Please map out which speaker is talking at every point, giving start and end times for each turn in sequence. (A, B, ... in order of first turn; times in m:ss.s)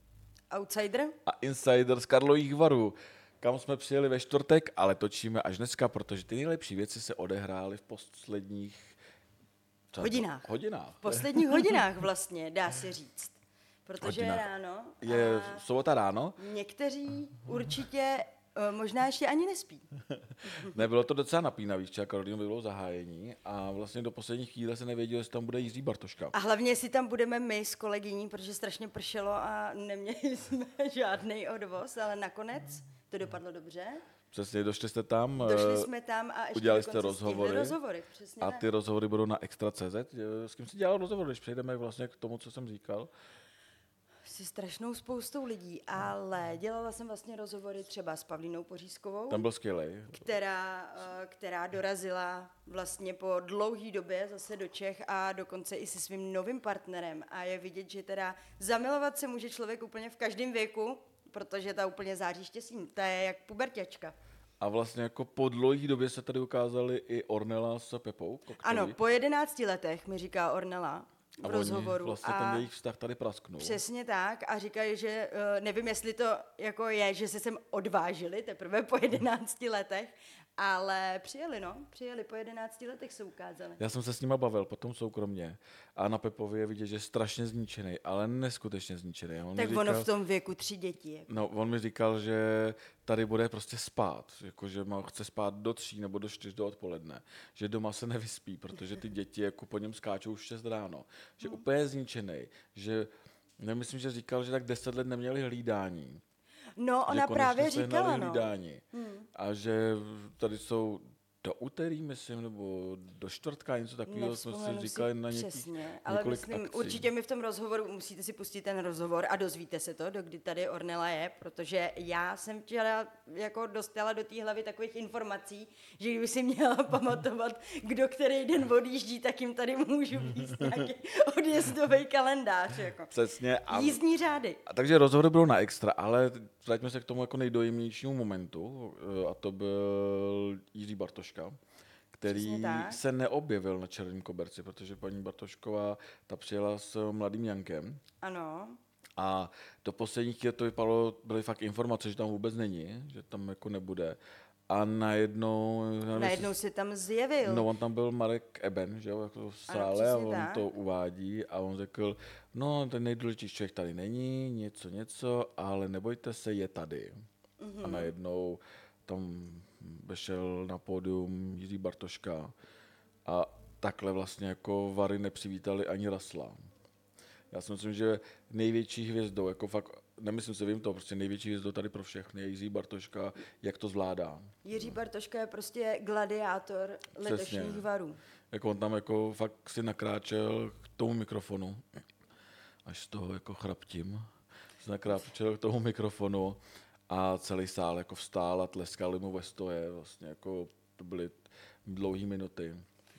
0:00.5-0:01.2 A
0:01.2-0:09.0 B
0:09.9-0:11.9 B
0:10.0-0:10.4 A
0:11.0-0:15.6 A
0:14.0-0:14.4 B
0:15.0-0:16.4 B
0:16.4-0:19.9 A
0:20.4-0:20.8 A
0:20.6-0:26.3 B
0:26.3-0:34.0 A
0:34.3-0:35.9 B
0:35.4-0:38.6 A
0:36.5-0:37.8 B
0:38.4-0:43.1 B
0:44.2-0:49.4 A
0:49.3-0:50.2 B
0:50.1-1:04.2 A
1:04.6-1:09.0 B
1:08.6-1:12.6 A
1:11.4-1:13.8 B
1:13.6-1:23.8 A
1:23.8-1:30.1 B
1:29.5-1:31.3 A
1:31.3-1:43.1 B
1:43.6-1:46.2 B
1:46.8-1:49.3 A
1:47.1-1:48.8 B
1:49.3-1:57.1 B
1:54.0-2:13.1 A
2:13.1-2:14.0 B
2:13.7-2:14.6 A
2:14.6-2:21.6 B
2:22.1-2:28.0 B
2:22.2-2:23.0 A
2:28.2-2:28.8 A
2:29.2-2:34.2 B
2:34.7-2:36.5 B
2:36.1-2:37.7 A
2:37.4-2:47.1 B
2:39.7-2:40.6 A
2:47.6-2:48.1 A
2:47.8-2:52.5 B
2:53.2-2:56.6 B
2:57.5-3:04.9 B
3:04.6-3:08.2 A
3:07.2-3:07.8 B
3:08.5-3:11.8 B
3:12.8-3:14.2 B
3:14.8-3:22.8 B